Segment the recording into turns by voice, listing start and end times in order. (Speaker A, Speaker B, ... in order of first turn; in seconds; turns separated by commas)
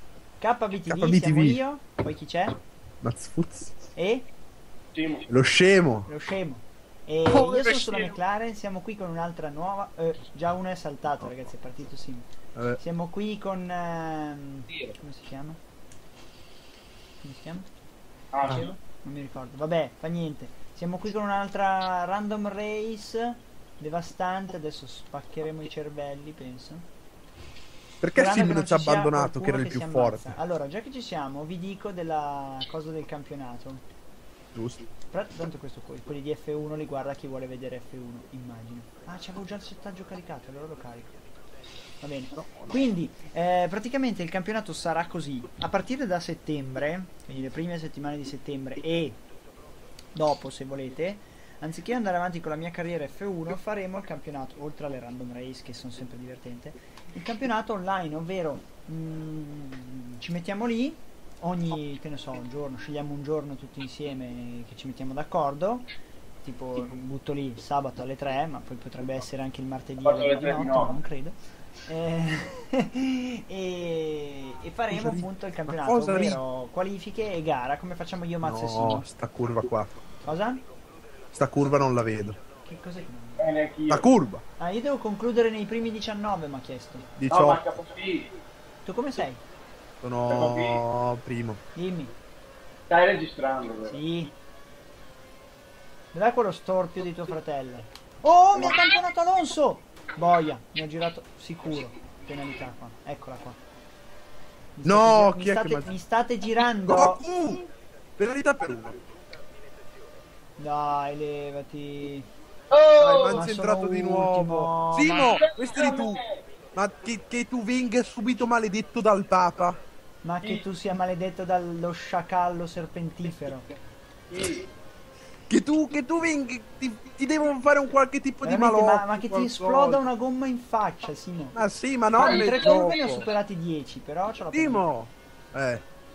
Speaker A: 0.4-2.6, Speaker B: 0.8-1.6, Speaker B: 3.0-3.7, Speaker A: 3.9-4.2, Speaker C: 4.9-5.3, Speaker B: 5.3-6.1, Speaker A: 6.1-12.3, Speaker B: 7.3-8.2, Speaker A: 12.8-15.6, Speaker A: 17.2-17.7, Speaker C: 18.3-18.7, Speaker A: 18.5-26.9, Speaker B: 28.0-30.4, Speaker A: 28.1-33.8, Speaker B: 34.5-34.8, Speaker A: 35.1-41.1, Speaker A: 42.0-49.2, Speaker B: 42.4-42.7, Speaker A: 50.1-65.9, Speaker A: 66.4-79.1, Speaker C: 70.0-71.0, Speaker B: 74.9-76.4, Speaker B: 78.4-79.9, Speaker A: 80.2-80.6, Speaker B: 81.3-82.4, Speaker A: 82.6-83.5, Speaker C: 83.4-84.1, Speaker B: 83.9-84.4, Speaker A: 84.6-87.1, Speaker B: 87.2-87.6, Speaker C: 87.3-88.3, Speaker A: 88.8-89.4, Speaker B: 90.0-91.6, Speaker C: 90.3-90.8, Speaker A: 91.7-92.1, Speaker C: 92.9-94.0, Speaker A: 93.8-94.3, Speaker A: 96.1-103.6, Speaker A: 104.8-107.5, Speaker B: 104.8-105.9, Speaker B: 106.8-107.6, Speaker B: 108.2-109.0, Speaker A: 110.6-112.3, Speaker C: 112.7-113.4, Speaker B: 113.0-116.2, Speaker A: 113.3-115.4, Speaker C: 115.2-116.4, Speaker B: 116.7-119.8, Speaker A: 120.2-123.6, Speaker C: 124.3-124.7, Speaker B: 125.5-130.0, Speaker A: 128.4-131.6, Speaker B: 131.5-133.3, Speaker A: 132.1-134.8, Speaker C: 132.2-132.9, Speaker B: 134.5-135.8